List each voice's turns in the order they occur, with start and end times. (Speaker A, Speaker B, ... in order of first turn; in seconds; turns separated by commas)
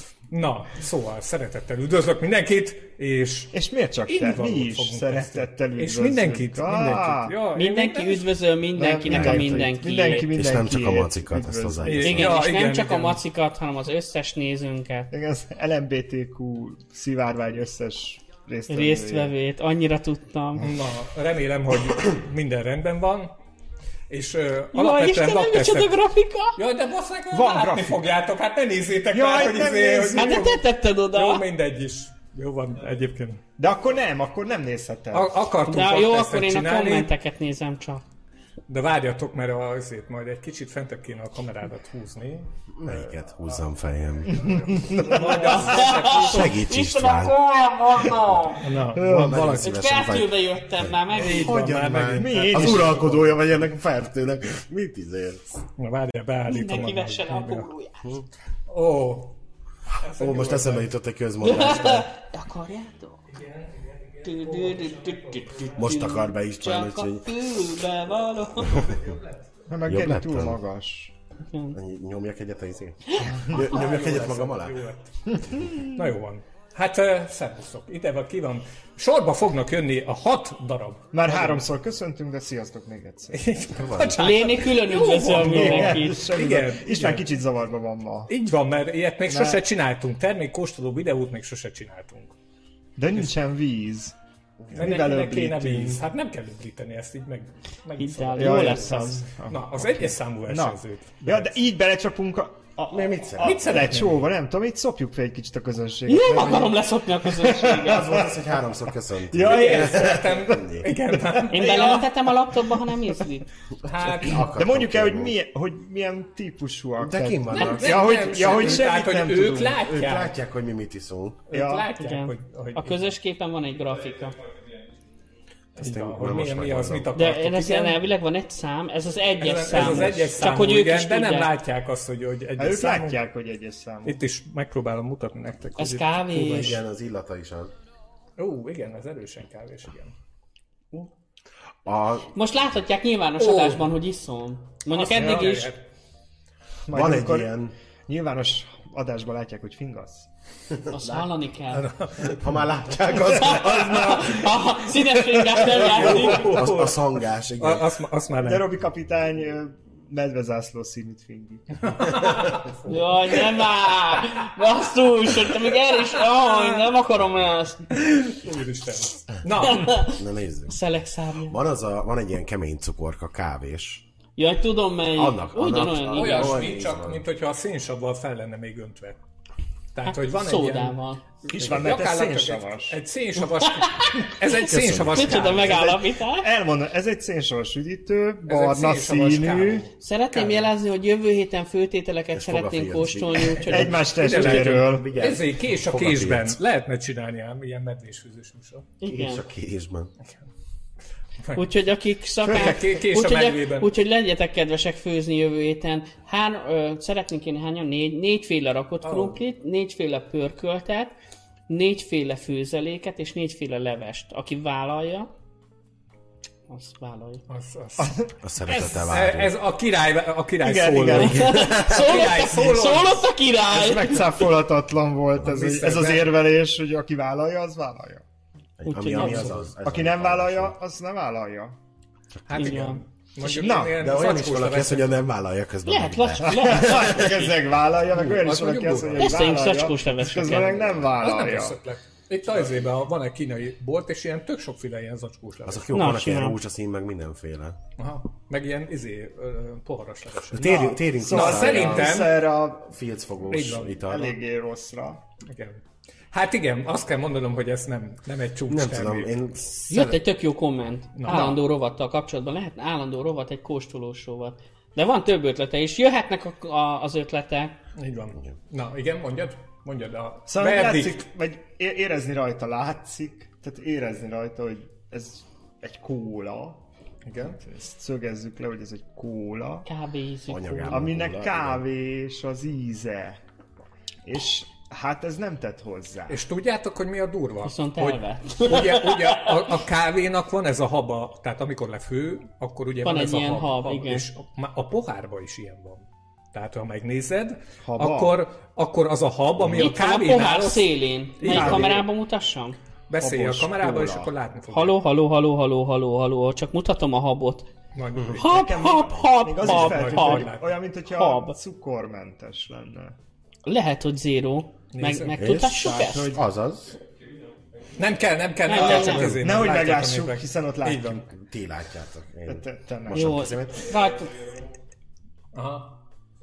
Speaker A: 0.3-3.5, Speaker B: 3.5-7.3, Speaker A: 4.1-8.3, Speaker C: 7.5-10.3, Speaker B: 8.7-12.3, Speaker D: 9.0-9.7, Speaker A: 9.9-10.2, Speaker D: 10.3-12.3, Speaker A: 11.8-13.2, Speaker C: 12.0-15.1, Speaker B: 15.1-19.3, Speaker C: 18.7-20.7, Speaker A: 20.6-23.3, Speaker A: 24.1-25.9, Speaker C: 24.7-26.6, Speaker A: 26.6-33.4, Speaker B: 27.3-28.1, Speaker B: 29.1-30.5, Speaker C: 30.1-31.4, Speaker B: 33.6-35.4, Speaker A: 35.1-37.1, Speaker C: 35.6-38.0, Speaker A: 38.7-43.2, Speaker D: 42.7-44.9, Speaker B: 44.3-45.9, Speaker A: 44.4-46.5, Speaker C: 45.3-48.7, Speaker D: 46.1-47.4, Speaker A: 48.6-49.8, Speaker D: 48.9-55.6, Speaker B: 49.0-49.3, Speaker C: 49.6-51.7, Speaker A: 51.1-53.1, Speaker B: 51.7-53.3, Speaker A: 55.8-57.7, Speaker C: 56.5-58.1, Speaker A: 58.7-59.4, Speaker A: 60.0-60.9, Speaker D: 60.2-62.1, Speaker C: 61.4-63.3, Speaker A: 63.3-66.0, Speaker C: 64.2-68.9, Speaker D: 65.8-67.3, Speaker A: 68.5-69.4, Speaker D: 68.7-69.0, Speaker B: 69.7-71.1, Speaker D: 69.9-70.6, Speaker C: 71.5-71.8, Speaker D: 71.7-74.8, Speaker B: 73.3-73.6, Speaker A: 73.5-81.5, Speaker B: 75.5-75.9, Speaker B: 81.1-83.4, Speaker A: 83.3-87.3, Speaker D: 83.7-84.2, Speaker C: 84.2-86.2, Speaker B: 85.3-88.3, Speaker A: 88.3-92.3, Speaker B: 89.3-89.6, Speaker B: 93.0-94.1, Speaker D: 94.6-95.0, Speaker B: 94.7-96.0, Speaker A: 94.7-101.5, Speaker C: 98.0-99.2, Speaker B: 98.3-108.6, Speaker D: 102.9-104.0, Speaker A: 103.4-104.2, Speaker C: 106.1-108.2, Speaker D: 107.7-110.9, Speaker B: 109.3-110.6, Speaker A: 109.4-112.1, Speaker B: 111.3-112.1, Speaker C: 111.5-113.5, Speaker A: 113.8-114.5, Speaker D: 113.8-115.3, Speaker B: 114.5-119.8, Speaker D: 117.0-118.4, Speaker A: 117.5-120.3, Speaker D: 119.7-121.4, Speaker A: 121.5-123.1, Speaker B: 121.5-121.9, Speaker C: 121.6-124.4, Speaker A: 125.8-128.0, Speaker D: 125.8-127.1, Speaker C: 127.1-131.5, Speaker A: 129.4-133.2, Speaker D: 129.7-130.4, Speaker B: 132.6-134.2, Speaker A: 134.0-136.2, Speaker C: 135.8-136.8, Speaker D: 136.3-137.7, Speaker A: 138.4-140.1, Speaker D: 141.8-142.4, Speaker C: 142.3-145.7, Speaker A: 143.4-143.8, Speaker A: 144.9-145.8, Speaker B: 145.1-145.5, Speaker B: 146.8-150.3, Speaker D: 146.9-147.7, Speaker D: 150.7-151.3, Speaker C: 150.9-151.9, Speaker A: 151.7-152.5, Speaker D: 152.2-154.5, Speaker C: 153.2-156.7, Speaker B: 153.3-155.7, Speaker A: 155.6-158.7, Speaker D: 156.0-157.9, Speaker B: 158.4-162.3, Speaker A: 161.8-163.4, Speaker C: 162.8-167.9, Speaker A: 166.1-166.9, Speaker A: 167.9-170.1, Speaker C: 169.6-171.6, Speaker D: 170.1-170.8, Speaker D: 171.5-174.0, Speaker C: 174.4-176.6, Speaker D: 175.1-177.2, Speaker A: 176.1-179.2, Speaker A: 179.9-185.9, Speaker C: 180.0-181.2, Speaker B: 181.5-183.0, Speaker D: 181.6-181.9, Speaker C: 183.6-186.5, Speaker D: 184.6-185.9, Speaker B: 185.7-189.8, Speaker A: 188.5-190.7, Speaker C: 190.0-194.8, Speaker D: 192.3-196.6, Speaker B: 193.7-195.1, Speaker A: 194.1-198.8, Speaker C: 199.0-199.4, Speaker D: 199.1-200.1, Speaker C: 201.5-211.1, Speaker A: 202.4-203.9, Speaker A: 209.0-209.4, Speaker C: 211.7-215.3, Speaker C: 216.7-217.4, Speaker A: 217.5-223.3, Speaker B: 218.0-218.3, Speaker D: 218.4-219.5, Speaker B: 220.6-221.6, Speaker C: 221.1-224.2, Speaker D: 221.2-222.1, Speaker B: 223.7-228.2, Speaker A: 225.4-226.3, Speaker D: 228.8-230.8, Speaker C: 228.8-229.6, Speaker B: 229.3-231.8, Speaker A: 232.5-235.2, Speaker C: 232.5-233.0, Speaker B: 233.4-234.0, Speaker D: 234.0-237.3, Speaker C: 235.8-237.5, Speaker B: 236.4-241.8, Speaker A: 238.1-239.6, Speaker C: 239.2-240.9, Speaker A: 241.2-246.0, Speaker D: 245.6-247.8, Speaker C: 245.9-246.6, Speaker A: 248.0-252.4, Speaker D: 250.5-252.3, Speaker B: 250.6-252.9, Speaker D: 252.8-254.3, Speaker A: 253.5-254.0, Speaker B: 254.0-255.2, Speaker A: 255.5-259.3, Speaker D: 258.7-260.2, Speaker C: 259.9-267.8, Speaker A: 261.1-261.6, Speaker B: 261.3-261.6, Speaker A: 267.9-271.2, Speaker B: 270.5-276.8, Speaker A: 277.2-277.6, Speaker B: 277.4-279.9, Speaker C: 279.8-281.1, Speaker D: 280.5-281.8, Speaker B: 280.9-283.4, Speaker B: 284.2-286.4, Speaker A: 286.3-302.0, Speaker C: 287.6-289.7, Speaker C: 293.0-294.3, Speaker B: 297.8-298.4, Speaker C: 299.7-302.8, Speaker B: 301.4-302.0, Speaker A: 303.1-305.0, Speaker B: 303.2-304.3, Speaker C: 304.7-307.7, Speaker A: 307.9-308.7, Speaker C: 308.3-310.5, Speaker B: 308.4-313.1, Speaker A: 309.6-310.8, Speaker C: 311.1-311.5, Speaker C: 313.6-316.4, Speaker A: 314.9-315.4, Speaker D: 315.4-317.0, Speaker B: 315.7-316.4, Speaker A: 317.9-321.2, Speaker C: 318.6-319.4, Speaker B: 318.7-321.3, Speaker D: 321.3-323.9, Speaker B: 322.5-323.4, Speaker C: 323.1-324.4, Speaker A: 325.5-326.0